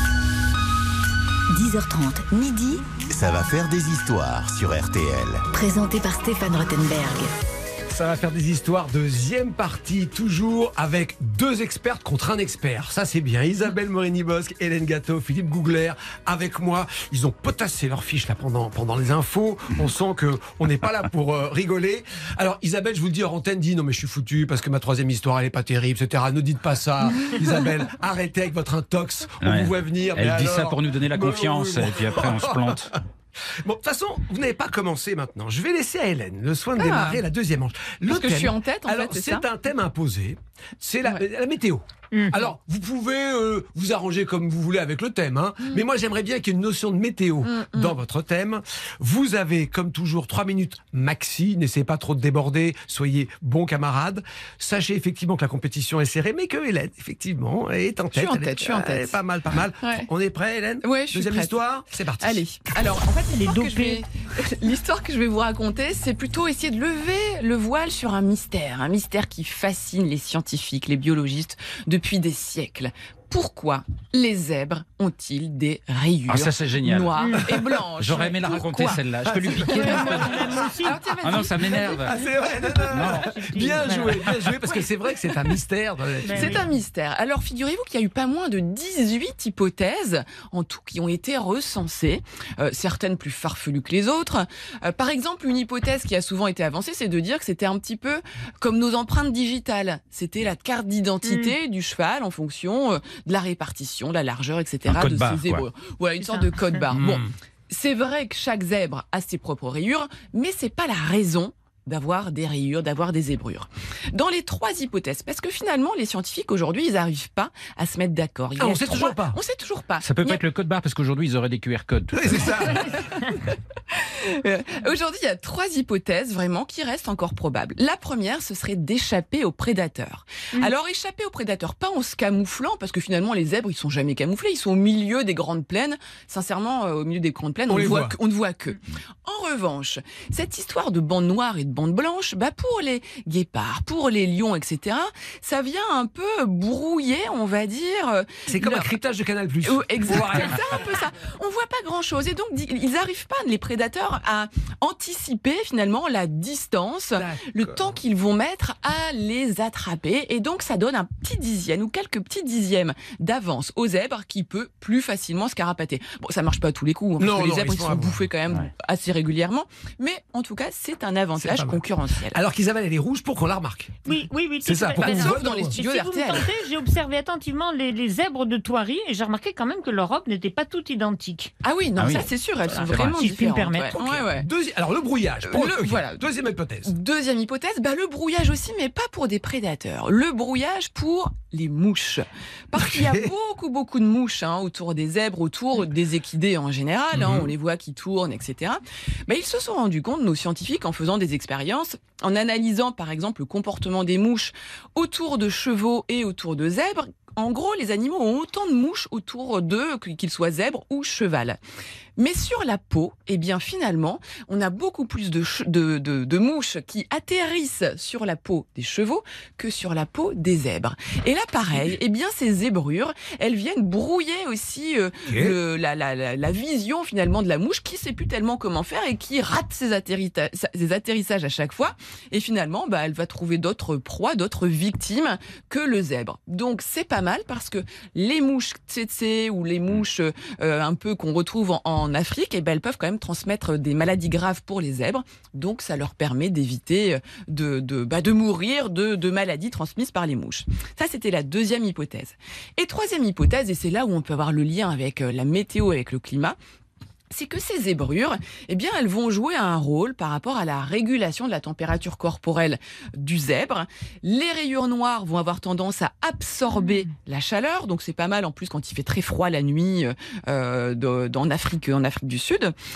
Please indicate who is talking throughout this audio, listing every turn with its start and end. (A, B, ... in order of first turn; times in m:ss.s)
0:01.5-0:02.9 A
0:03.1-0:05.5 B
0:05.5-0:07.3 A
0:07.9-1:02.5 C
0:29.4-0:32.9 D
0:36.8-0:37.2 E
0:38.1-0:39.4 E
0:42.1-0:42.4 F
0:47.4-0:47.9 E
0:58.1-0:59.2 E
1:00.8-1:01.6 E
1:02.2-1:19.0 E
1:03.3-1:04.0 F
1:16.3-1:20.4 D
1:19.2-1:20.5 C
1:19.6-1:22.8 E
1:19.7-1:21.0 F
1:21.2-1:22.2 D
1:21.7-1:26.6 C
1:22.9-1:23.3 D
1:23.0-1:24.2 F
1:26.2-1:26.6 F
1:26.3-2:00.4 E
1:41.2-1:41.6 F
1:44.9-1:45.6 D
1:46.2-1:46.5 F
1:46.9-1:47.3 C
1:58.6-1:59.4 C
2:00.0-2:03.0 D
2:02.1-2:03.3 C
2:03.9-2:28.9 E
2:17.7-2:18.2 C
2:28.5-2:30.8 C
2:29.6-2:52.4 E
2:37.2-2:37.9 C
2:47.2-2:48.2 C
2:51.4-2:54.0 C
2:54.1-3:01.5 F
2:54.6-2:55.8 C
2:55.0-2:56.5 E
3:01.6-3:04.5 E
3:02.0-3:03.2 D
3:03.1-3:04.0 F
3:04.0-3:06.9 C
3:05.4-3:06.3 E
3:06.8-3:31.6 E
3:12.8-3:13.3 C
3:17.1-3:17.5 C
3:32.2-4:16.6 E
3:45.3-3:45.6 C
4:17.3-4:32.8 E